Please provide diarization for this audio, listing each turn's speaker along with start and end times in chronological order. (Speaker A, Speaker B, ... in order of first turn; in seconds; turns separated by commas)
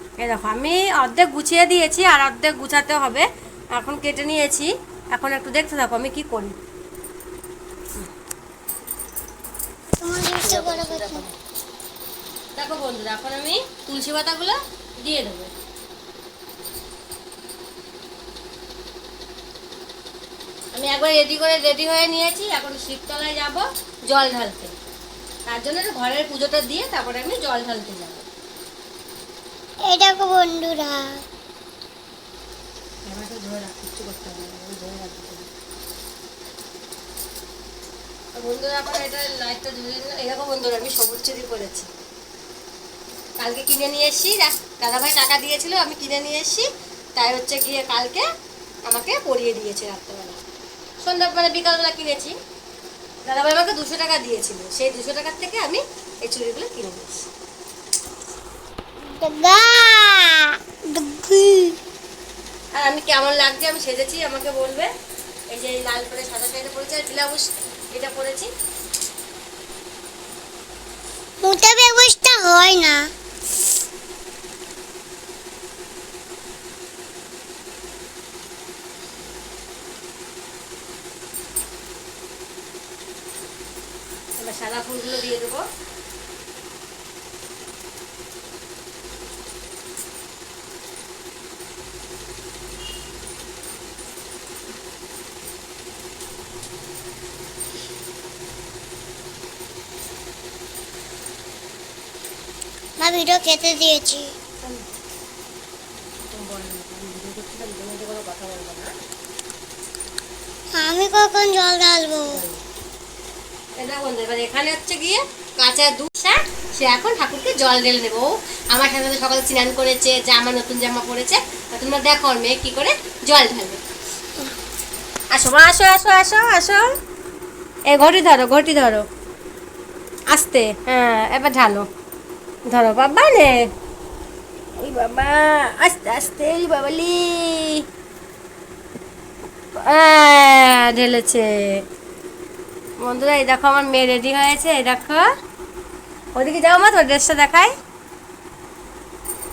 Speaker A: 0.2-6.6, Speaker B: 10.0-11.2, Speaker A: 10.4-11.3, Speaker A: 12.6-15.5, Speaker A: 20.7-24.7, Speaker A: 25.5-28.2, Speaker B: 29.8-31.2, Speaker A: 33.0-35.5, Speaker A: 38.3-41.9, Speaker A: 43.4-48.3, Speaker A: 48.9-50.4, Speaker A: 51.0-52.4, Speaker A: 53.2-57.3, Speaker B: 59.0-61.8, Speaker A: 62.7-64.9, Speaker A: 65.5-68.5, Speaker B: 71.4-73.1, Speaker A: 84.4-85.7, Speaker B: 103.0-104.3, Speaker A: 104.6-104.8, Speaker A: 106.3-108.9, Speaker B: 110.7-112.4, Speaker A: 112.3-112.6, Speaker A: 113.8-123.8, Speaker A: 125.3-127.0, Speaker A: 127.9-129.1, Speaker A: 130.3-131.9, Speaker A: 132.7-133.7, Speaker A: 134.8-137.8, Speaker A: 139.8-141.8, Speaker A: 143.0-145.3, Speaker A: 146.3-147.7